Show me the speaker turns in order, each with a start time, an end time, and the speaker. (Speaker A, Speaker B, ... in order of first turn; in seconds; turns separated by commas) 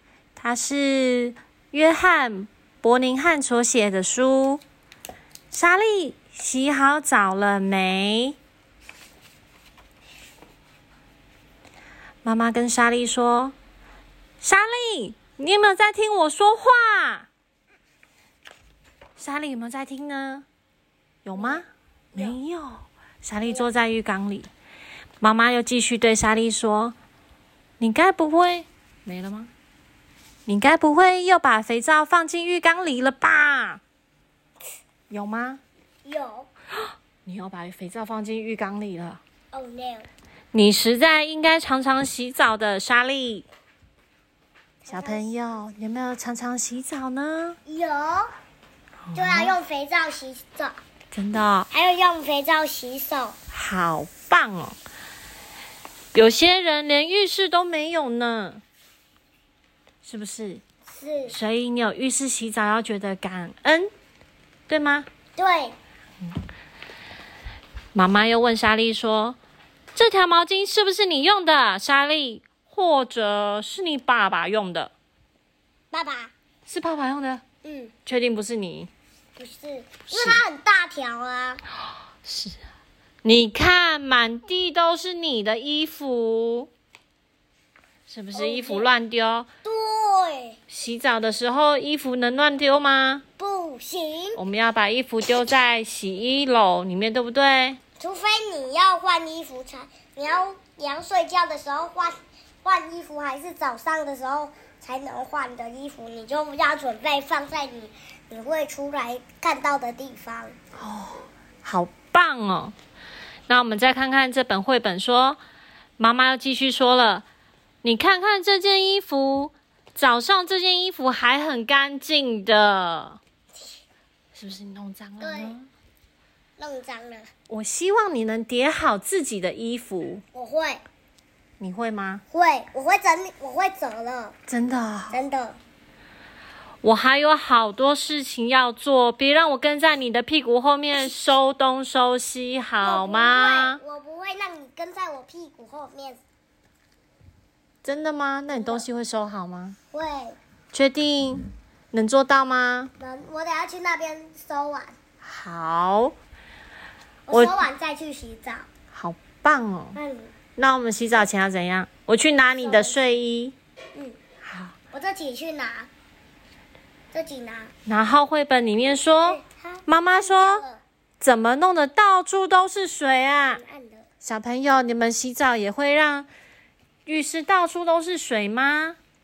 Speaker A: 0.3-4.6, Speaker A: 5.5-8.4, Speaker A: 12.2-13.5, Speaker A: 14.4-17.3, Speaker A: 19.2-20.4, Speaker A: 21.2-24.5, Speaker B: 21.4-21.6, Speaker A: 25.2-26.9, Speaker A: 27.8-29.5, Speaker A: 30.5-33.8, Speaker A: 35.1-35.6, Speaker B: 36.0-36.5, Speaker A: 37.2-39.2, Speaker B: 39.5-40.1, Speaker A: 40.5-43.5, Speaker B: 44.8-45.6, Speaker A: 44.9-47.6, Speaker B: 47.6-48.3, Speaker A: 49.1-49.5, Speaker B: 49.1-50.8, Speaker A: 51.1-51.7, Speaker B: 51.7-53.4, Speaker A: 53.5-54.8, Speaker A: 56.1-58.6, Speaker A: 60.0-60.6, Speaker B: 60.9-61.4, Speaker A: 61.3-63.9, Speaker A: 64.7-65.1, Speaker B: 65.4-65.8, Speaker A: 67.9-69.4, Speaker A: 69.9-74.9, Speaker B: 75.9-76.3, Speaker A: 76.7-77.4, Speaker B: 77.6-77.9, Speaker A: 78.0-78.9, Speaker B: 79.4-81.6, Speaker A: 80.1-80.4, Speaker A: 82.2-82.6, Speaker A: 83.2-86.7, Speaker A: 88.1-89.5, Speaker B: 88.3-88.9, Speaker B: 89.6-90.6, Speaker A: 90.7-93.2, Speaker B: 93.4-94.4, Speaker A: 94.3-97.8, Speaker B: 98.0-110.5, Speaker A: 110.8-112.7, Speaker A: 113.5-115.4, Speaker A: 116.0-117.2, Speaker A: 117.8-123.2, Speaker A: 124.3-125.7, Speaker B: 125.2-125.6, Speaker B: 126.6-127.3, Speaker A: 127.5-130.2, Speaker B: 130.3-130.8, Speaker A: 131.6-132.2, Speaker B: 132.3-134.3, Speaker A: 134.5-135.2, Speaker B: 135.1-135.6, Speaker A: 136.8-143.8, Speaker B: 142.8-146.2, Speaker A: 147.8-149.8, Speaker B: 148.5-148.8, Speaker B: 149.9-150.4, Speaker A: 150.7-152.9, Speaker B: 153.0-155.0, Speaker A: 155.2-156.1, Speaker B: 157.3-158.7, Speaker A: 157.3-157.7, Speaker A: 158.9-160.0, Speaker B: 159.9-160.3, Speaker A: 160.6-163.6, Speaker B: 162.6-163.1, Speaker A: 164.4-164.8, Speaker B: 164.9-165.9, Speaker B: 167.1-167.7, Speaker A: 167.8-170.6, Speaker B: 169.2-170.8, Speaker A: 171.2-173.6, Speaker B: 173.5-174.1, Speaker A: 174.2-176.3, Speaker A: 177.1-179.0